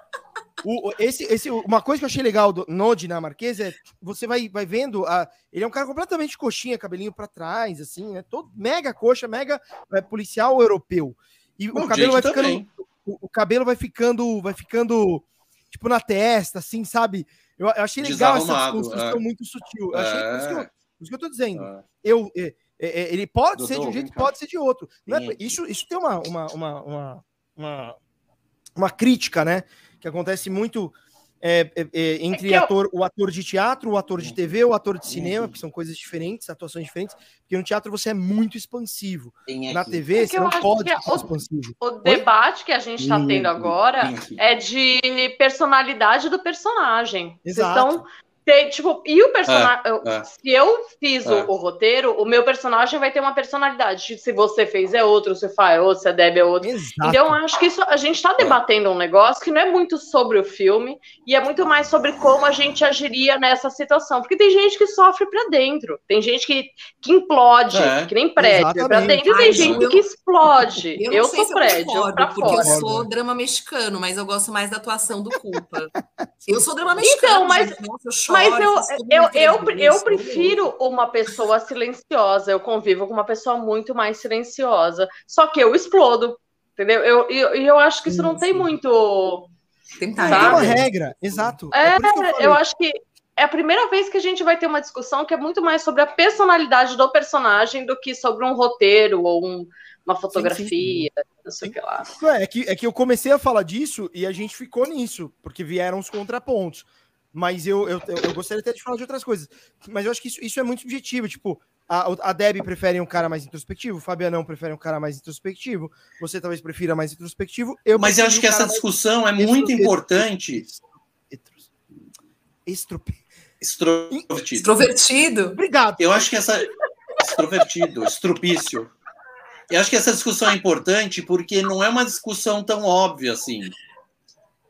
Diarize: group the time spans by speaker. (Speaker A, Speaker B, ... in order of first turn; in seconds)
Speaker A: 0.6-28.0, 28.8-42.2, 43.0-43.7, 47.5-48.0, 56.6-57.4, 68.4-69.7, 72.5-73.1, 88.1-88.7, 90.2-92.6, 100.3-101.1, 101.6-118.9, 119.4-121.7, 122.7-123.2, 125.6-126.3
Speaker B: 11.7-12.7, 18.0-19.2, 19.9-20.7, 21.6-21.8, 23.6-24.3, 25.1-25.6, 35.1-35.6, 39.5-40.0, 44.0-44.4, 49.5-50.3, 67.7-68.1, 69.5-69.8, 118.0-120.6, 123.6-124.8, 126.0-128.9, 129.7-133.7
Speaker C: 32.3-32.7, 40.1-41.3, 41.8-72.9, 77.0-89.5, 90.3-90.7, 91.7-102.1
Speaker D: 69.2-70.1, 70.8-75.9, 76.5-80.7, 90.0-90.9, 124.5-125.6